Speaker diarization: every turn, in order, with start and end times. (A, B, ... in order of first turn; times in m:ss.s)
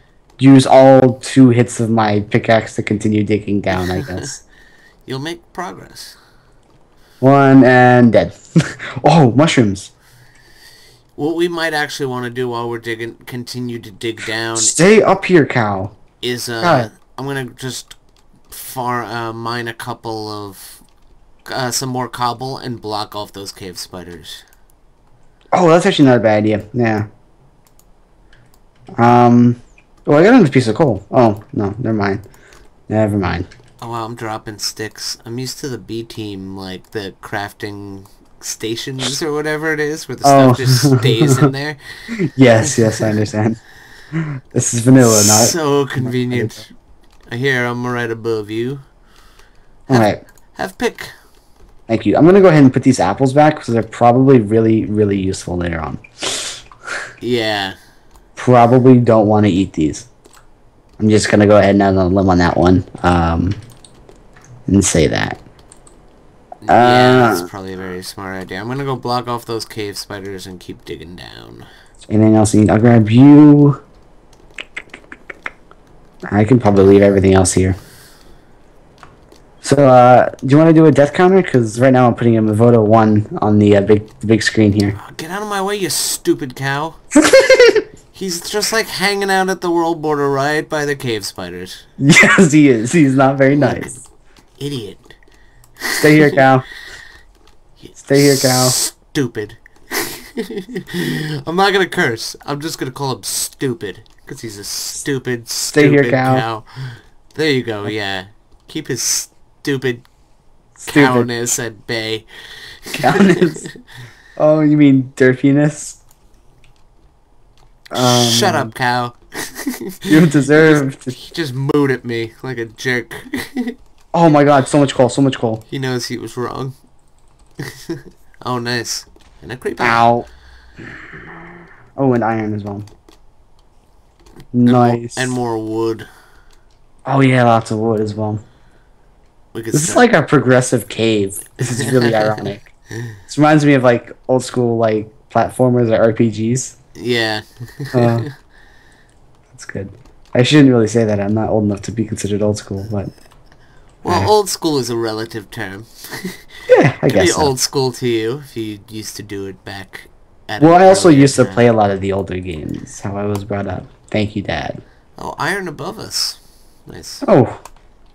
0:00.4-0:04.4 A
0:03.8-0:04.3 B
0:05.1-0:06.2 B
0:07.2-0:08.4 A
0:09.0-0:09.9 A
0:11.2-0:14.7 B
0:14.6-0:16.0 A
0:16.2-0:18.0 B
0:16.6-0:16.9 A
0:18.5-0:20.8 B
0:21.5-0:24.4 B
0:25.5-0:27.1 A
0:29.0-0:32.2 A
0:32.9-0:33.5 A
0:33.8-0:41.8 B
0:40.2-0:41.5 A
0:42.2-0:43.6 A
0:42.6-0:43.2 B
0:44.1-0:46.6 A
0:44.9-0:46.7 B
0:47.3-0:48.8 B
0:49.9-0:50.2 A
0:49.9-0:51.1 B
0:51.9-0:56.6 A
0:57.2-0:57.8 B
0:58.4-1:00.1 A
1:01.0-1:03.6 A
1:04.7-1:05.4 A
1:06.6-1:11.7 B
1:06.7-1:07.5 A
1:12.1-1:13.8 A
1:16.3-1:17.8 A
1:19.6-1:25.0 A
1:25.0-1:27.0 B
1:27.3-1:27.8 A
1:28.1-1:31.8 B
1:32.0-1:34.0 A
1:33.5-1:34.0 B
1:34.6-1:35.1 B
1:35.8-1:36.4 B
1:36.0-1:36.7 A
1:37.8-1:50.0 B
1:38.0-1:38.8 A
1:45.7-1:46.5 A
1:50.8-1:51.3 A
1:50.9-1:52.3 B
1:52.9-1:53.7 B
1:53.0-1:53.7 A
1:54.4-1:56.0 A
1:57.9-1:58.7 A
1:58.0-2:03.8 B
2:00.1-2:01.2 A
2:04.1-2:05.6 A
2:05.7-2:06.7 B
2:07.6-2:10.1 B
2:09.8-2:10.3 A
2:12.0-2:12.9 A
2:14.5-2:15.4 A
2:14.7-2:16.1 B
2:17.1-2:18.4 A
2:19.5-2:20.1 B
2:19.7-2:22.7 A
2:21.8-2:22.5 B
2:23.3-2:26.8 A
2:27.0-2:28.3 B
2:27.9-2:28.3 A
2:29.5-2:33.1 A
2:34.0-2:36.4 B
2:36.7-2:37.5 A
2:37.1-2:41.7 B
2:40.6-2:44.8 A
2:45.2-2:47.2 B
2:47.2-2:47.6 A